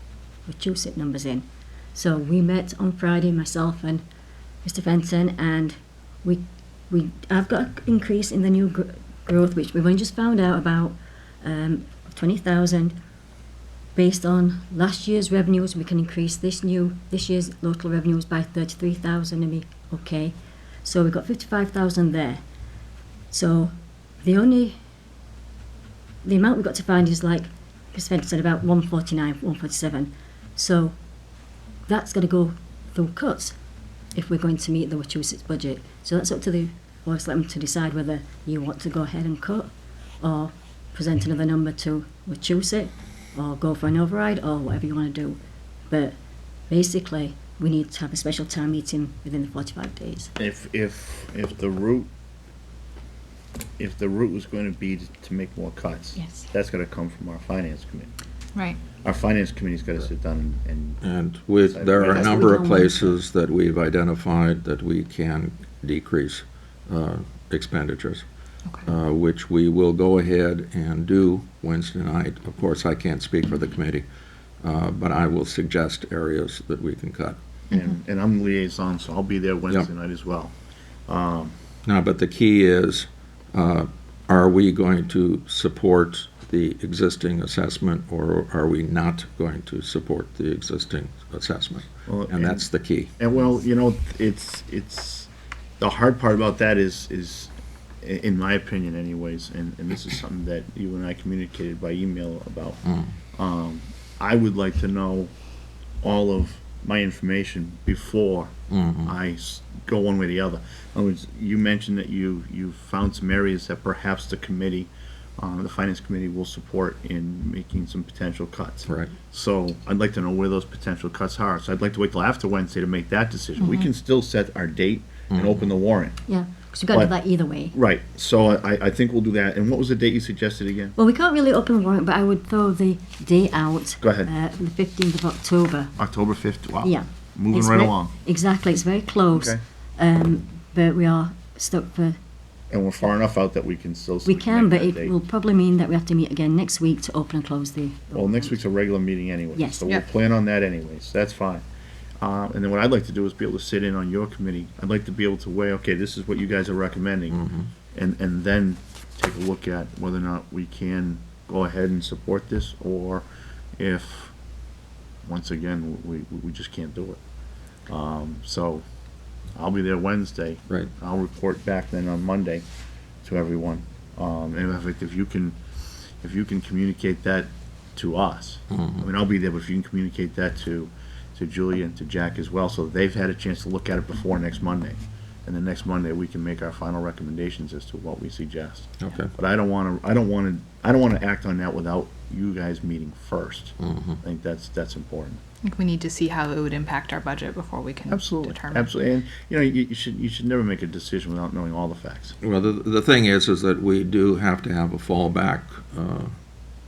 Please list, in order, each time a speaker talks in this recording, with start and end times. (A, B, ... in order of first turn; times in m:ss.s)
0:00.5-0:04.0 A
0:04.6-0:13.0 A
0:14.0-0:22.4 A
0:23.3-0:24.8 A
0:26.2-0:31.0 A
0:31.9-0:33.6 A
0:34.1-0:39.7 A
0:40.2-0:45.4 A
0:45.9-0:46.1 A
0:46.7-0:50.3 A
0:50.4-0:52.1 B
0:53.8-0:58.1 B
0:56.2-0:56.5 A
0:58.6-0:58.8 C
0:59.0-1:01.0 B
1:01.0-1:08.2 D
1:01.7-1:02.6 B
1:02.0-1:03.1 A
1:08.8-1:14.1 D
1:14.6-1:17.4 D
1:17.7-1:20.5 B
1:21.1-1:21.6 B
1:21.9-1:33.1 D
1:32.1-1:35.3 B
1:35.8-1:42.8 B
1:42.8-1:43.1 D
1:43.4-1:45.3 B
1:46.0-1:48.5 B
1:48.7-1:49.1 D
1:49.0-2:06.2 B
1:58.9-1:59.1 D
2:03.6-2:03.9 C
2:05.3-2:05.7 D
2:06.3-2:07.8 A
2:07.7-2:11.0 B
2:11.0-2:15.9 A
2:14.0-2:14.3 B
2:16.0-2:18.1 B
2:16.8-2:22.2 A
2:22.7-2:25.2 B
2:24.2-2:28.6 A
2:28.1-2:31.6 B
2:29.6-2:29.8 A
2:32.2-2:37.4 B
2:37.3-2:37.7 D
2:37.9-2:43.2 B
2:43.8-2:44.3 B
2:45.2-2:47.2 B
2:47.9-2:48.8 B
2:49.6-2:52.6 B
2:53.2-2:55.6 B
2:56.2-3:15.4 B
2:58.7-2:59.1 D
3:09.0-3:09.3 D
3:13.8-3:14.2 D
3:15.6-3:18.9 C
3:18.1-3:22.4 B
3:22.4-3:26.3 D